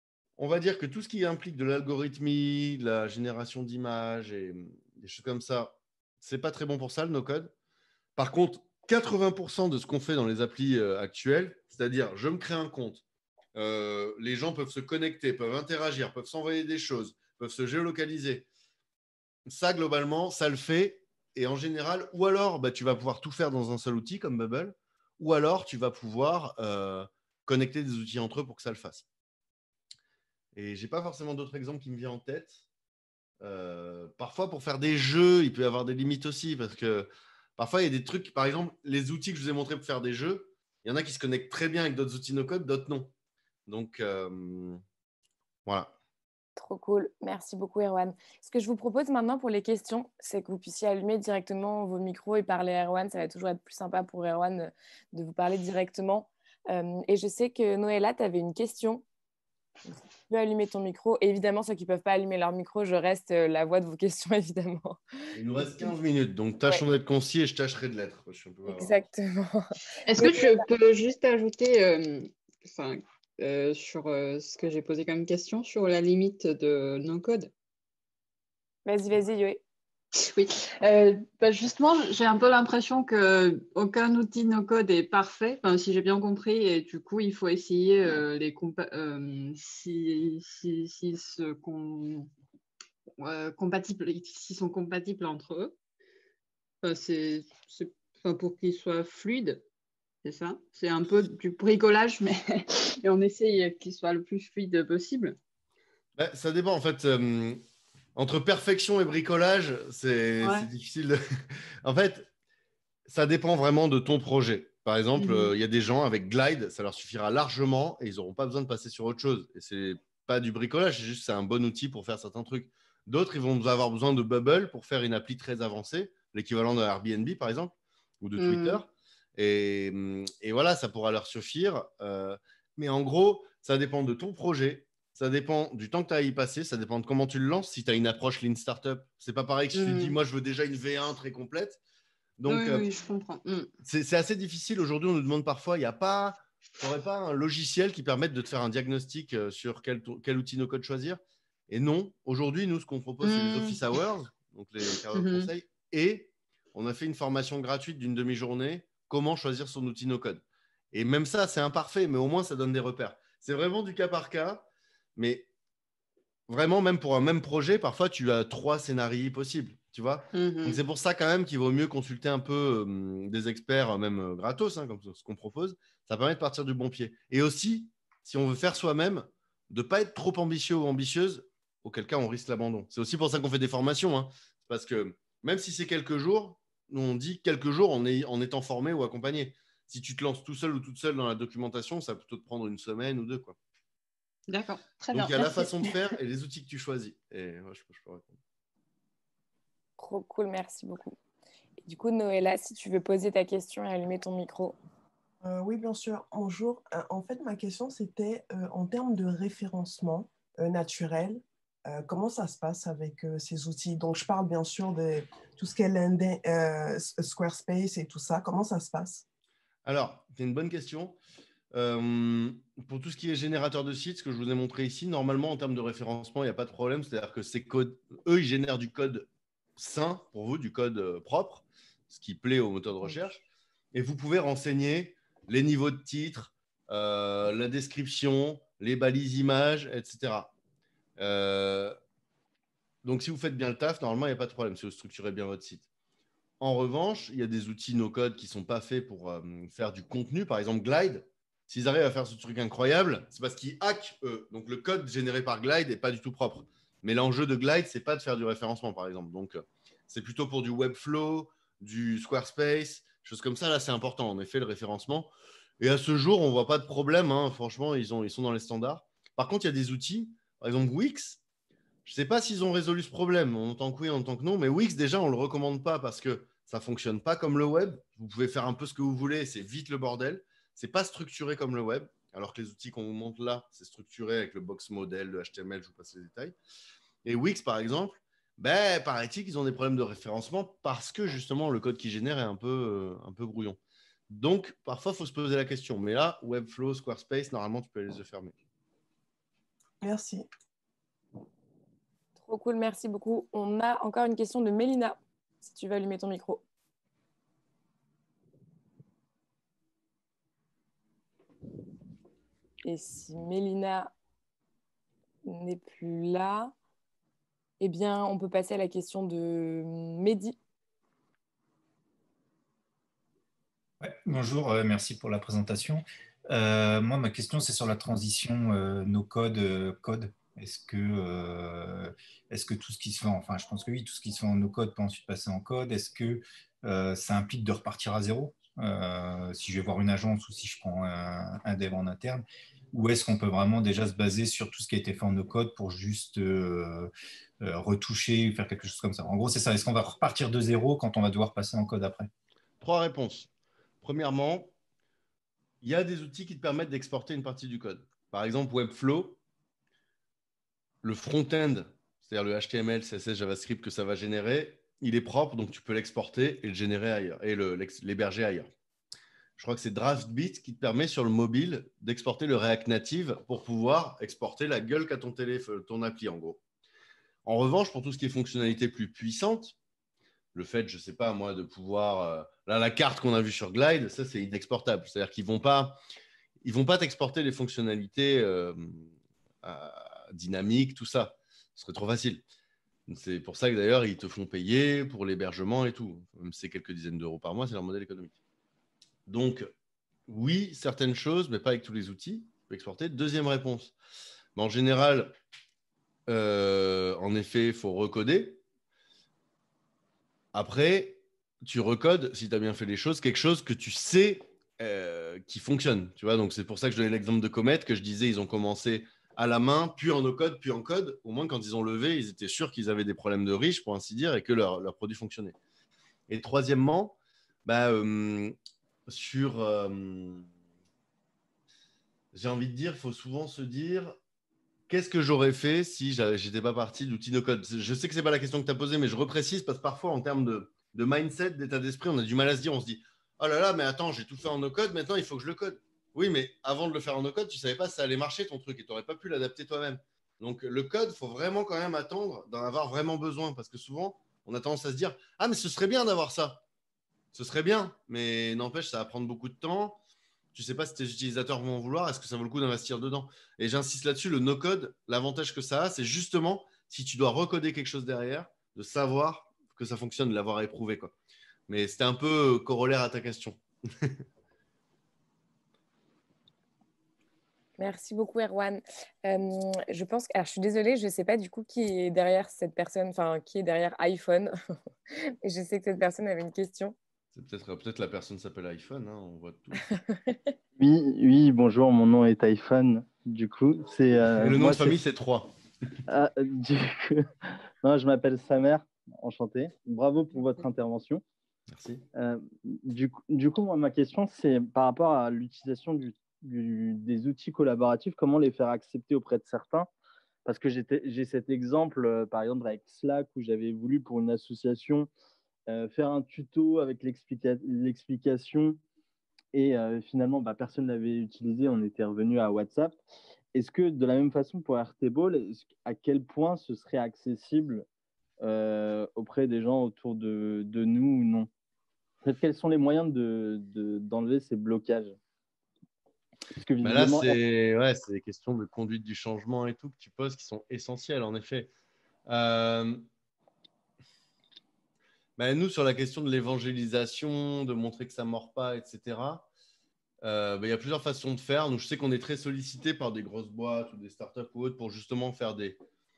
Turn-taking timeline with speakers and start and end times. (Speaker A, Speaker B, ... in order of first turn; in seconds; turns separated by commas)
Speaker A: 0.4-7.5, Speaker A: 8.2-13.0, Speaker A: 13.5-18.5, Speaker A: 19.5-29.1, Speaker A: 30.5-32.6, Speaker A: 33.4-43.1, Speaker A: 43.7-44.8, Speaker A: 45.6-45.9, Speaker B: 46.5-59.0, Speaker B: 59.9-65.0, Speaker A: 65.3-69.0, Speaker B: 68.7-70.6, Speaker C: 70.0-77.5, Speaker B: 78.8-79.6, Speaker C: 80.2-92.3, Speaker C: 93.2-95.8, Speaker C: 96.8-99.6, Speaker C: 100.2-105.4, Speaker A: 106.2-107.6, Speaker A: 108.1-112.3, Speaker C: 110.4-110.7, Speaker A: 113.1-141.8, Speaker C: 115.1-115.5, Speaker C: 128.4-128.8, Speaker C: 139.7-140.2, Speaker A: 142.4-142.8, Speaker C: 142.5-143.7, Speaker A: 143.8-165.5, Speaker C: 153.2-153.8, Speaker C: 155.1-155.5, Speaker A: 166.5-193.6, Speaker C: 170.3-170.8, Speaker C: 194.5-196.0, Speaker A: 195.1-198.4, Speaker B: 200.0-201.2, Speaker B: 201.8-204.8, Speaker D: 205.4-219.2, Speaker A: 219.8-221.2, Speaker A: 221.7-240.5, Speaker A: 241.2-242.0, Speaker A: 243.0-245.8, Speaker A: 246.6-271.4, Speaker A: 272.0-286.6, Speaker A: 287.2-293.8, Speaker A: 294.3-298.5, Speaker D: 300.0-300.4, Speaker B: 302.4-306.6, Speaker B: 312.8-314.1, Speaker B: 315.4-316.7, Speaker B: 317.8-320.6, Speaker E: 324.0-352.3, Speaker A: 352.8-353.5, Speaker A: 354.0-354.7, Speaker A: 355.8-359.4, Speaker A: 361.0-368.7, Speaker A: 369.6-376.6, Speaker A: 377.4-379.8, Speaker A: 380.5-386.0, Speaker A: 386.6-392.4, Speaker A: 393.1-398.4, Speaker A: 399.3-399.7, Speaker A: 400.3-403.9, Speaker A: 404.6-405.3, Speaker A: 406.3-408.6, Speaker A: 410.5-425.6, Speaker A: 426.3-428.5, Speaker A: 429.1-430.5, Speaker A: 432.3-434.2, Speaker A: 434.9-456.6, Speaker A: 457.3-460.0, Speaker A: 460.5-471.1, Speaker A: 471.7-474.2, Speaker B: 477.8-484.5, Speaker B: 485.4-486.9, Speaker A: 487.3-489.8, Speaker B: 490.0-490.4, Speaker F: 490.8-494.9, Speaker A: 494.3-495.5, Speaker F: 496.1-497.3, Speaker F: 497.8-501.2, Speaker A: 501.7-502.1, Speaker F: 502.1-509.9, Speaker F: 510.4-515.1, Speaker F: 515.7-518.8, Speaker F: 519.5-523.0, Speaker F: 523.5-527.9, Speaker F: 528.4-531.5, Speaker F: 532.2-535.1, Speaker F: 536.5-537.4, Speaker A: 536.8-541.7, Speaker A: 542.2-543.0, Speaker A: 545.4-549.5, Speaker A: 550.2-555.8